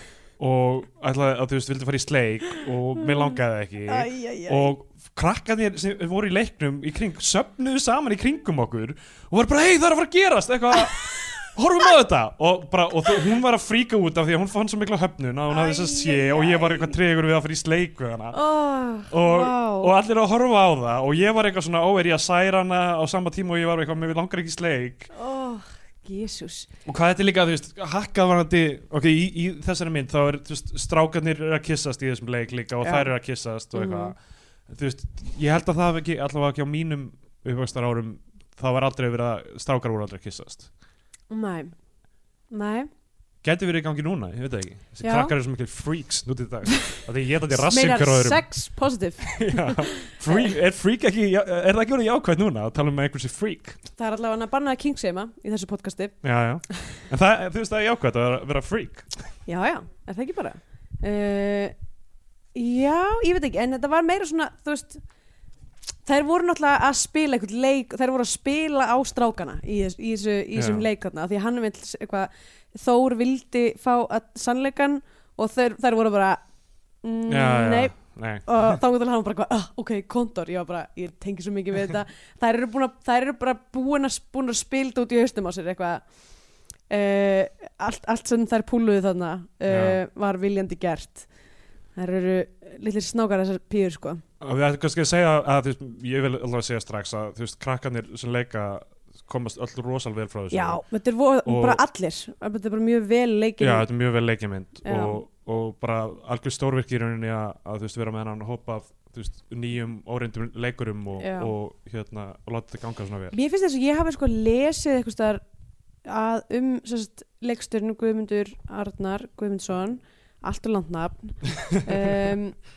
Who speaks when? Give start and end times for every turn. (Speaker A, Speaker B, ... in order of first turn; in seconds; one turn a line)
Speaker A: 0.4-18.4
Speaker B: 3.9-4.7
Speaker B: 15.5-16.9
Speaker B: 18.3-19.9
Speaker A: 19.1-25.1
Speaker B: 25.1-26.7
Speaker A: 26.9-40.7
Speaker B: 32.8-33.1
Speaker B: 33.7-34.1
Speaker B: 41.3-41.7
Speaker B: 42.5-42.9
Speaker A: 43.4-48.4
Speaker B: 45.0-45.3
Speaker B: 47.5-50.5
Speaker A: 49.2-53.8
Speaker B: 54.0-56.1
Speaker A: 56.2-59.3
Speaker B: 59.5-61.7
Speaker B: 62.5-65.0
Speaker B: 66.0-76.4
Speaker A: 70.5-70.9
Speaker B: 77.0-86.1
Speaker A: 77.3-78.8
Speaker B: 86.8-91.3
Speaker A: 89.7-90.0
Speaker B: 91.9-94.2
Speaker A: 94.4-100.8
Speaker B: 100.5-103.9
Speaker A: 101.4-101.8
Speaker A: 103.6-113.3
Speaker B: 104.8-105.2
Speaker B: 111.2-111.5
Speaker B: 113.3-115.4
Speaker B: 116.0-122.6